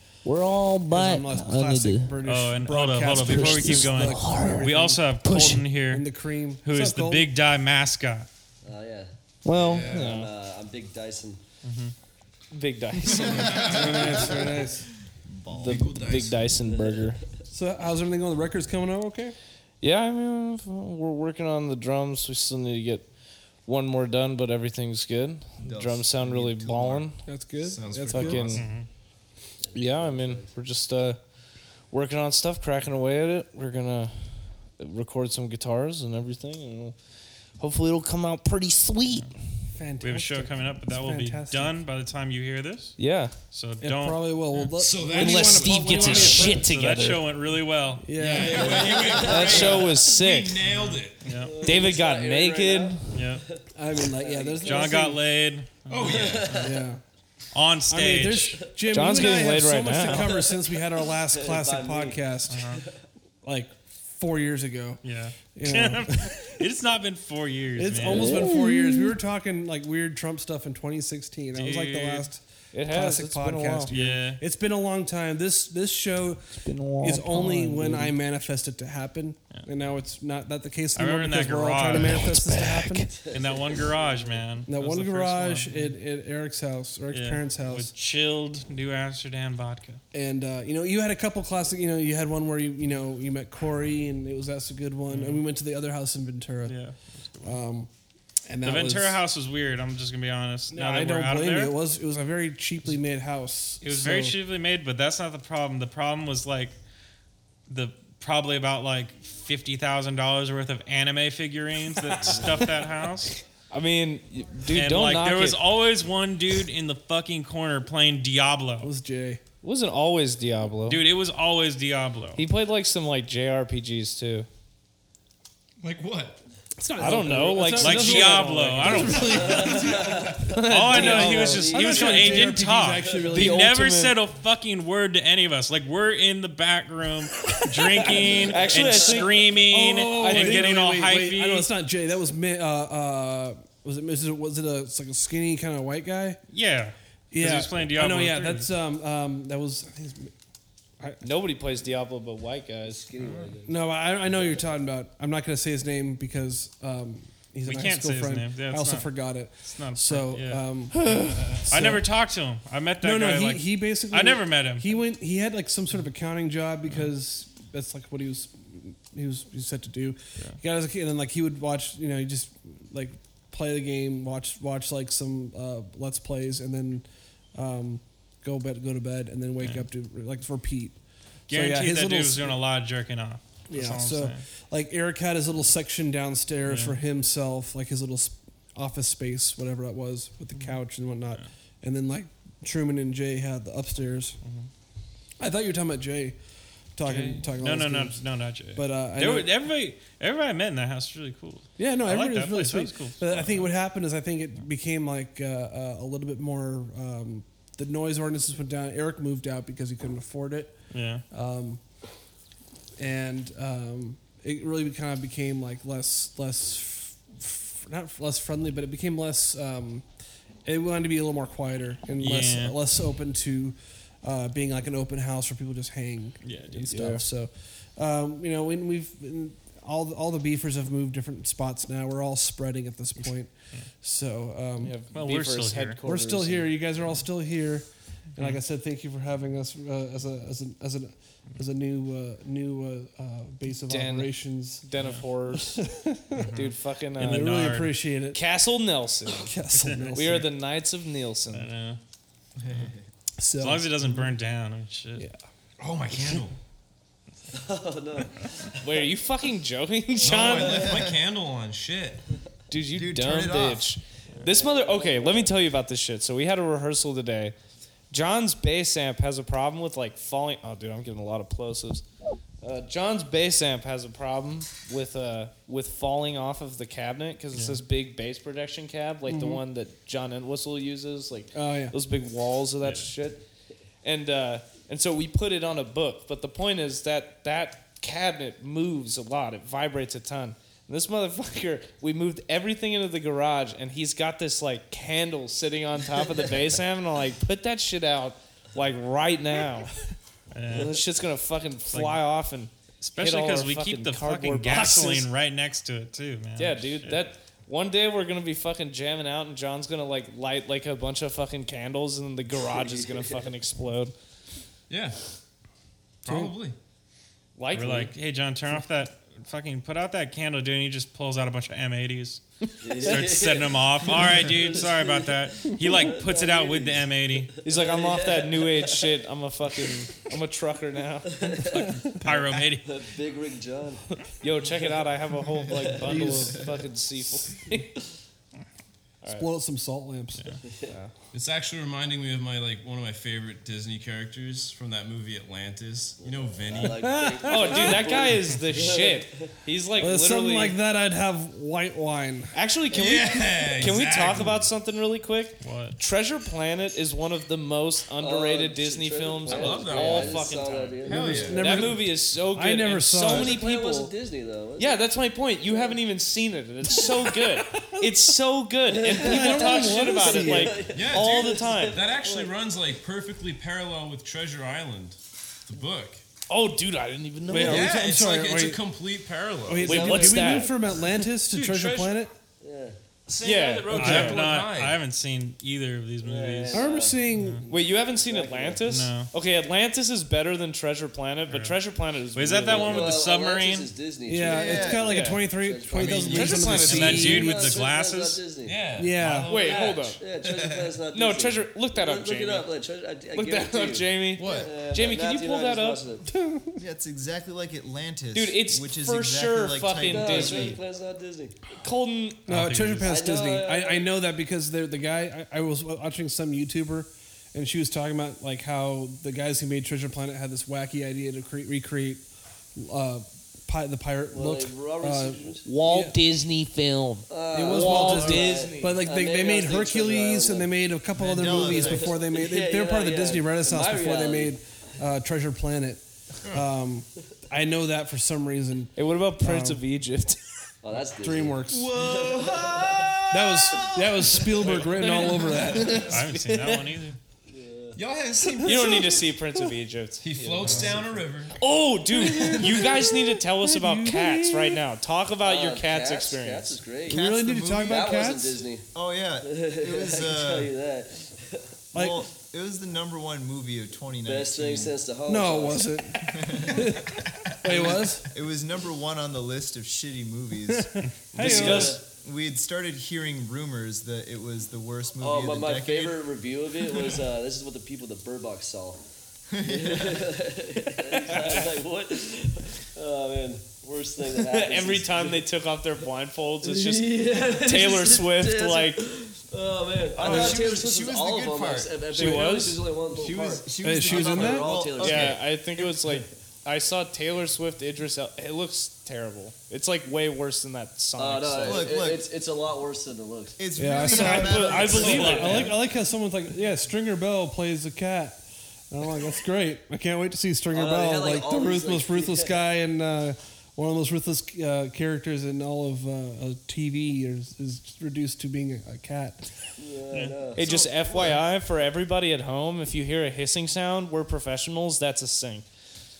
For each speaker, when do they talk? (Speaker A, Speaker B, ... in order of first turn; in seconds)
Speaker A: 0.2-2.2, 3.1-4.7, 5.2-5.6, 9.4-10.3, 12.5-14.3, 15.5-17.2, 19.8-23.1, 23.6-27.2, 28.1-28.6, 29.7-31.2, 31.9-36.9, 37.6-39.3, 43.0-43.3, 45.1-47.2, 49.2-50.6, 51.6-53.2, 58.9-60.5, 68.1-69.2, 72.7-73.9, 76.5-78.1, 82.0-83.3, 113.7-115.6, 119.6-121.0, 122.3-124.5, 127.0-131.8, 133.3-133.6, 137.5-139.5, 140.1-140.7, 151.2-153.0, 160.9-161.6, 226.9-227.2, 234.8-236.8, 243.9-245.8, 246.4-247.5, 248.3-249.5, 250.1-251.7, 258.8-261.0, 262.7-267.5, 268.1-272.0, 272.6-283.4, 284.0-299.9, 300.7-305.3, 306.6-314.1, 317.6-318.1, 327.6-331.6, 334.4-337.9, 347.4-350.8, 352.5-364.1, 364.8-372.0, 376.5-378.0, 379.8-381.2, 383.4-384.5, 387.7-393.2, 395.1-395.4, 396.3-397.3, 399.5-400.2, 401.1-402.7, 403.3-406.0, 408.3-410.8, 411.8-412.4, 425.6-429.0, 438.9-440.4, 444.6-447.0, 448.6-450.5, 451.6-456.8, 471.4-472.0, 481.1-481.7, 484.3-489.0, 492.1-492.8, 495.0-501.9, 504.1-505.7, 520.5-525.6
Speaker B: 0.9-7.3, 13.6-14.9, 17.5-19.3, 27.2-28.5, 39.7-41.8, 43.8-46.7, 48.0-49.0, 53.7-55.2, 56.6-57.0, 57.9-62.8, 63.4-66.7, 67.8-83.1, 84.7-87.9, 90.1-96.8, 97.4-97.9, 98.5-99.2, 100.7-104.4, 118.8-119.4, 126.8-130.2, 131.0-134.2, 138.8-146.4, 147.3-150.3, 153.7-162.1, 163.0-181.0, 181.5-182.6, 183.7-194.4, 195.4-196.3, 196.9-198.2, 198.7-199.6, 201.8-210.8, 211.3-211.8, 213.0-220.0, 220.6-234.9, 236.0-244.8, 245.5-246.4, 247.2-248.4, 249.2-250.5, 253.4-254.3, 256.1-256.4, 279.3-279.6, 281.5-281.9, 316.3-316.5, 331.6-332.1, 336.0-336.6, 339.3-340.5, 346.8-348.0, 350.0-352.5, 361.1-363.6, 367.1-368.1, 369.2-370.8, 377.5-378.8, 379.6-382.3, 386.7-387.6, 394.3-397.6, 399.0-399.5, 406.2-406.8, 412.5-422.2, 422.8-426.2, 427.5-439.8, 441.2-441.9, 443.3-446.1, 448.6-449.2, 452.2-454.8, 457.1-458.6, 461.9-462.2, 465.3-468.3, 470.7-472.0, 490.2-490.6, 493.8-494.7, 503.8-519.5
Speaker C: 2.2-6.0, 6.6-8.3, 11.6-11.9, 28.5-28.9, 40.0-43.0, 43.5-44.7, 46.4-48.1, 50.7-51.7, 53.1-53.4, 54.6-56.3, 57.5-58.7, 62.5-62.8, 65.0-68.5, 71.5-72.3, 73.9-74.4, 81.0-82.4, 83.3-86.0, 87.1-90.0, 95.1-95.4, 96.7-97.6, 98.6-101.7, 103.8-106.8, 107.7-113.3, 114.7-118.9, 120.9-122.4, 127.7-129.8, 130.5-141.7, 146.5-148.7, 157.6-160.6, 161.2-164.9, 181.5-184.4, 186.7-187.0, 197.0-203.7, 210.9-211.2, 222.2-222.8, 226.4-226.8, 235.1-236.0, 244.9-245.2, 246.3-248.0, 249.7-250.4, 251.5-252.0, 253.6-255.2, 277.5-277.8, 282.8-283.1, 300.5-301.0, 301.9-302.2, 303.0-307.2, 317.7-322.4, 323.0-327.6, 332.0-332.9, 355.6-356.0, 380.0-380.6, 383.9-387.6, 388.8-389.3, 391.5-391.8, 392.3-393.9, 396.7-398.5, 412.5-413.1, 446.0-447.2, 504.7-505.7, 520.1-520.4
Speaker D: 8.6-9.1, 9.9-11.4, 16.6-17.2, 29.6-30.5, 48.5-50.0, 51.4-55.1, 56.0-56.8, 58.8-59.4, 60.0-63.0, 83.2-84.4, 129.3-133.5, 138.6-139.2, 152.8-153.8, 154.3-154.6, 257.5-259.1, 260.2-260.8, 264.4-265.5, 312.6-313.3, 322.8-329.1, 331.3-334.1, 335.7-336.3, 346.2-349.4, 358.2-361.9, 363.3-365.1, 365.6-366.0, 368.9-372.5, 380.1-380.7, 382.6-383.0, 386.2-388.8, 392.7-398.8, 399.5-406.2, 410.0-411.6, 413.0-414.1, 424.3-425.7, 427.3-430.7, 431.4-434.6, 440.8-443.1, 447.5-448.0, 450.4-450.9, 455.4-457.2, 457.8-458.9, 459.4-461.6, 464.2-465.9, 471.4-472.0, 475.2-479.0, 479.6-485.4, 486.6-495.4, 501.1-503.6, 510.7-512.6, 519.8-520.6
Speaker E: 9.5-10.1, 13.3-14.4, 15.5-16.5, 27.6-28.7, 44.7-46.5, 48.1-51.3, 55.9-56.8, 125.8-126.4, 130.0-130.3, 153.2-153.6, 252.6-252.9, 255.8-256.6, 260.2-262.2, 314.9-315.2, 316.2-316.8, 341.3-347.1, 352.9-354.7, 359.5-362.0, 370.9-376.2, 377.6-380.4, 381.4-382.2, 383.3-385.0, 395.9-397.4, 398.6-400.9, 404.4-404.8, 441.7-445.5, 447.9-449.2, 450.2-451.6
Speaker F: 13.3-14.0, 15.2-15.9, 25.6-27.1, 260.7-261.2, 262.9-263.9, 394.4-395.1, 406.8-410.8, 431.1-432.1, 457.1-458.2, 458.9-460.7, 461.9-464.9, 466.2-476.3, 479.5-480.4, 490.1-492.1, 493.1-496.1, 501.6-502.2, 503.6-505.7